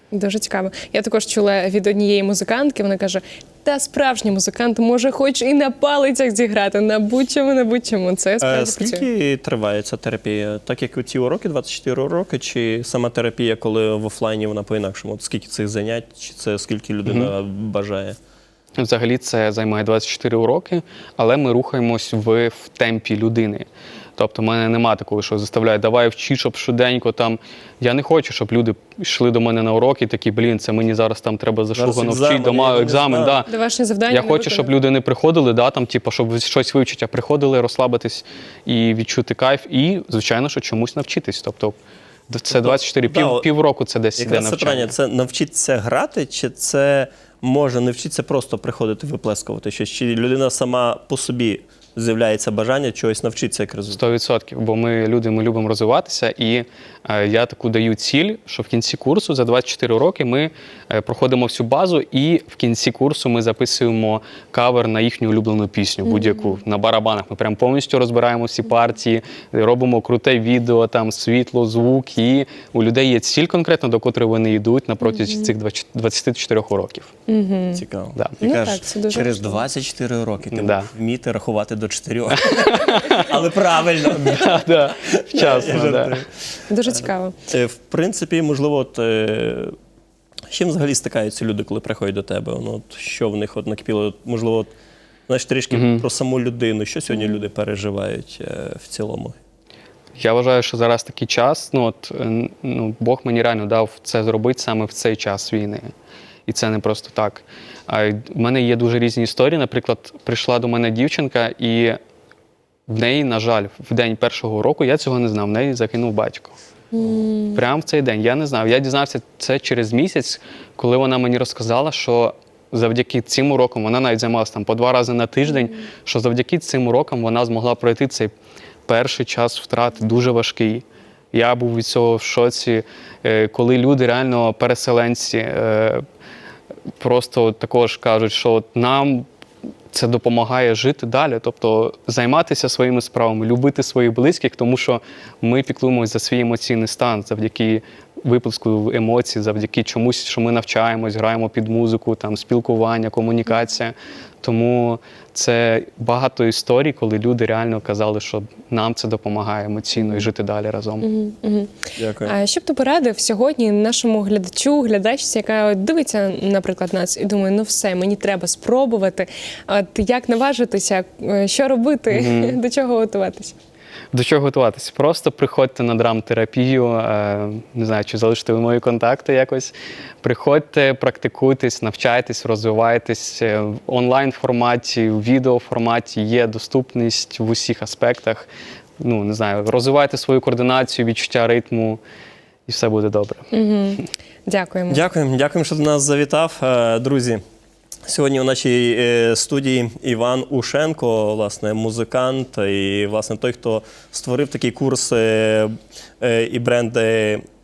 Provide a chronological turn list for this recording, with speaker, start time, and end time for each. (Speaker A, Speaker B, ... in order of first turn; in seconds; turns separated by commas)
Speaker A: 0.1-9.1, Speaker B: 8.4-18.2, Speaker C: 17.1-17.3, Speaker C: 18.8-33.5, Speaker B: 31.8-33.4, Speaker A: 33.5-34.7, Speaker C: 34.1-41.8, Speaker C: 42.3-44.9, Speaker B: 42.5-43.5, Speaker B: 44.2-54.0, Speaker C: 53.9-77.1, Speaker A: 66.1-66.5, Speaker A: 75.1-75.5, Speaker A: 77.3-77.8, Speaker B: 77.7-86.4, Speaker A: 78.4-79.6, Speaker C: 80.5-80.9, Speaker C: 82.3-83.4, Speaker C: 84.0-86.2, Speaker A: 86.7-87.3, Speaker B: 87.5-89.8, Speaker B: 90.5-94.7, Speaker B: 95.3-99.4, Speaker C: 95.7-96.1, Speaker A: 97.1-97.4, Speaker C: 100.2-105.9, Speaker C: 106.5-112.0, Speaker C: 112.9-116.6, Speaker A: 116.9-117.6, Speaker C: 117.5-128.3, Speaker C: 128.9-136.0, Speaker C: 137.0-139.3, Speaker C: 139.9-161.1, Speaker A: 160.0-160.3, Speaker A: 161.0-173.5, Speaker B: 161.9-162.4, Speaker C: 172.1-172.6, Speaker C: 174.1-188.5, Speaker C: 189.0-192.0, Speaker C: 192.7-193.5, Speaker A: 193.5-195.0, Speaker B: 194.9-197.4, Speaker B: 198.1-207.4